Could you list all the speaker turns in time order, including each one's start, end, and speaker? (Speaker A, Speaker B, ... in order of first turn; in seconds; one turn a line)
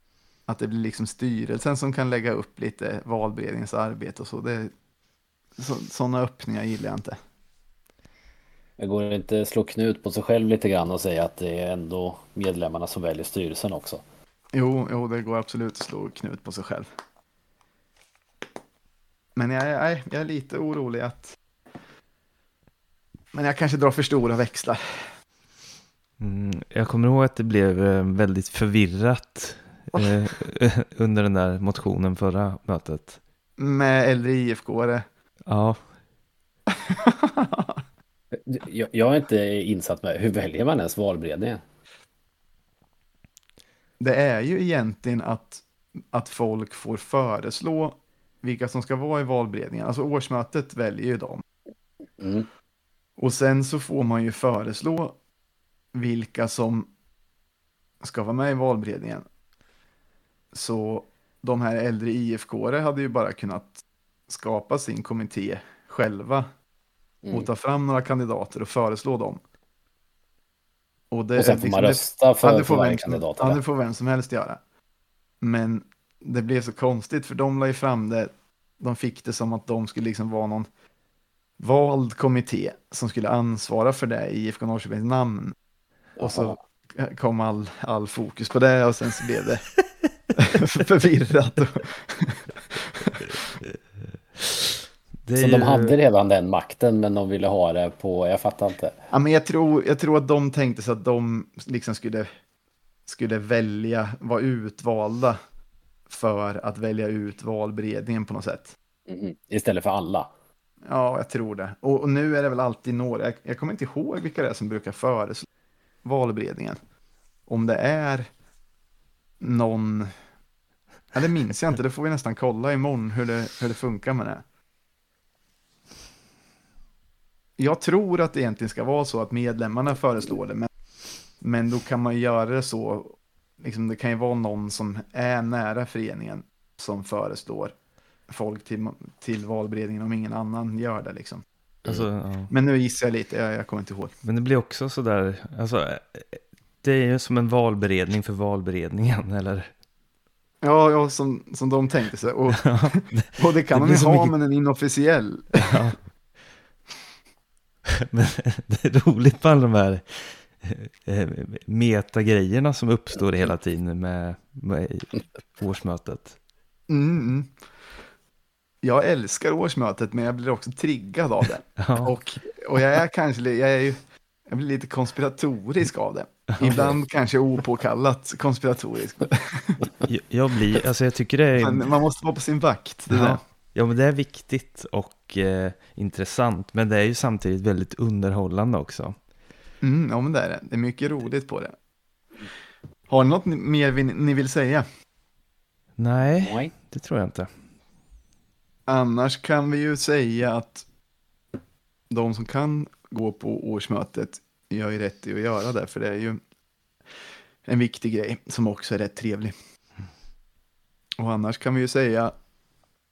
Speaker A: 0.5-4.7
Speaker A: 5.6-7.2
Speaker B: 8.8-14.0
Speaker A: 14.5-16.9
Speaker A: 19.4-21.4
Speaker A: 23.3-25.1
Speaker C: 26.2-33.2
Speaker A: 33.6-35.0
Speaker C: 35.5-35.8
Speaker A: 36.9-37.8
Speaker B: 38.3-41.6
Speaker A: 44.0-51.4
Speaker B: 52.2-52.5
Speaker A: 53.2-55.2
Speaker A: 55.9-56.9
Speaker A: 58.0-59.2
Speaker A: 60.5-66.5
Speaker B: 67.2-67.5
Speaker A: 67.3-69.4
Speaker A: 71.1-74.6
Speaker B: 71.4-73.6
Speaker A: 75.4-80.7
Speaker A: 81.6-85.5
Speaker B: 86.2-86.6
Speaker A: 86.2-89.7
Speaker A: 90.4-93.3
Speaker C: 94.4-94.7
Speaker C: 95.2-96.0
Speaker B: 95.4-99.0
Speaker A: 99.1-102.3
Speaker A: 103.1-105.4
Speaker A: 106.1-108.8
Speaker B: 109.1-110.3
Speaker A: 110.9-115.5
Speaker A: 116.0-116.8
Speaker A: 117.5-118.3
Speaker A: 119.4-120.1
Speaker A: 121.1-124.4
Speaker A: 127.6-130.7
Speaker A: 131.4-137.7
Speaker A: 138.3-141.4
Speaker C: 141.8-142.5
Speaker A: 142.5-144.2
Speaker C: 144.2-149.7
Speaker A: 150.6-155.8
Speaker C: 152.5-154.3
Speaker C: 155.6-156.0
Speaker C: 158.0-166.4
Speaker A: 166.9-167.5
Speaker A: 168.8-174.0
Speaker C: 171.8-172.1
Speaker A: 174.5-179.9
Speaker C: 180.1-181.9
Speaker A: 181.6-183.4
Speaker C: 183.1-189.2
Speaker A: 189.8-191.8
Speaker A: 193.1-194.8
Speaker C: 196.0-197.5
Speaker B: 196.4-196.7
Speaker A: 198.9-200.8
Speaker A: 202.1-206.4
Speaker A: 207.7-209.5
Speaker A: 211.2-212.3